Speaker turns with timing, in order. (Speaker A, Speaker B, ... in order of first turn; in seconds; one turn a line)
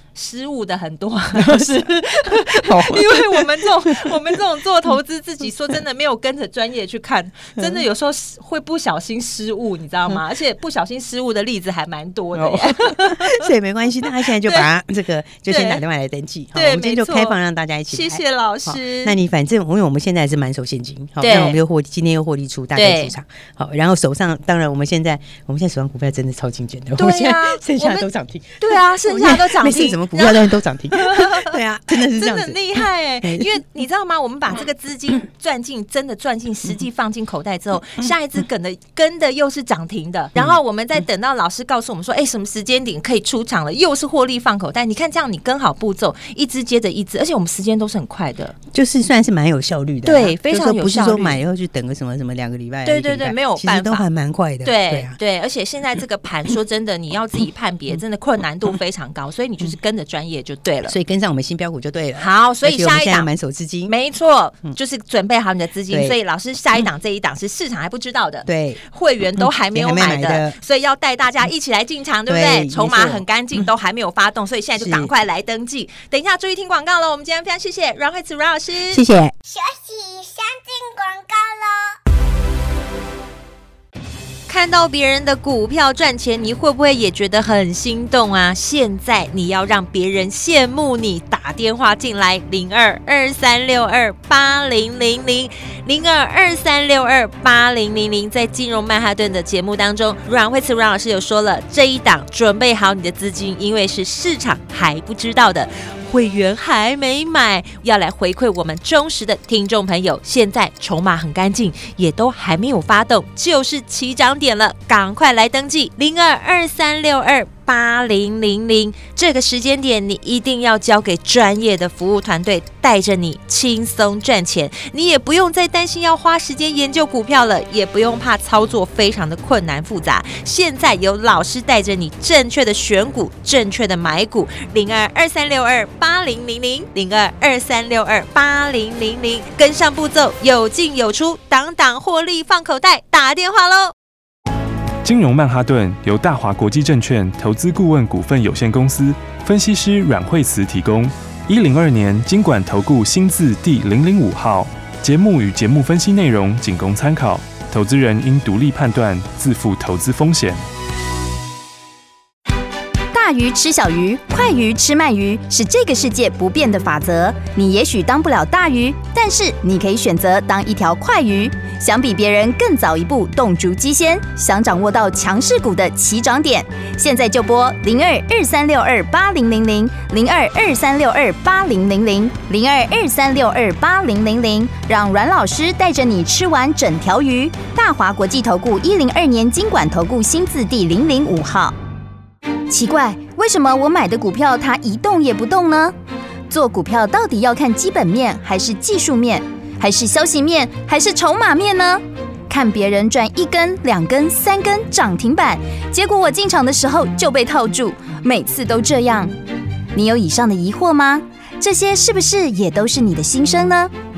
Speaker A: 0.1-13.5
Speaker B: 1.3-4.3
Speaker B: 7.6-7.8
Speaker B: 12.3-33.6
Speaker A: 14.2-14.7
Speaker A: 15.5-15.8
Speaker A: 16.5-17.4
Speaker A: 17.9-19.2
Speaker A: 21.2-21.6
Speaker A: 22.7-23.1
Speaker A: 26.9-28.1
Speaker A: 28.6-48.5
Speaker B: 48.7-55.2
Speaker A: 50.0-51.4
Speaker A: 52.8-54.0
Speaker A: 54.6-61.0
Speaker B: 60.9-63.9
Speaker A: 62.2-63.3
Speaker A: 63.9-79.0
Speaker B: 65.9-66.2
Speaker B: 68.5-68.8
Speaker B: 69.3-70.6
Speaker B: 72.3-73.2
Speaker B: 74.8-75.1
Speaker B: 78.9-79.3
Speaker C: 79.5-82.0
Speaker A: 84.5-143.9
Speaker D: 145.0-160.6
Speaker E: 163.1-191.8
Speaker E: 192.7-195.9
Speaker E: 196.5-209.3
Speaker E: 209.9-213.9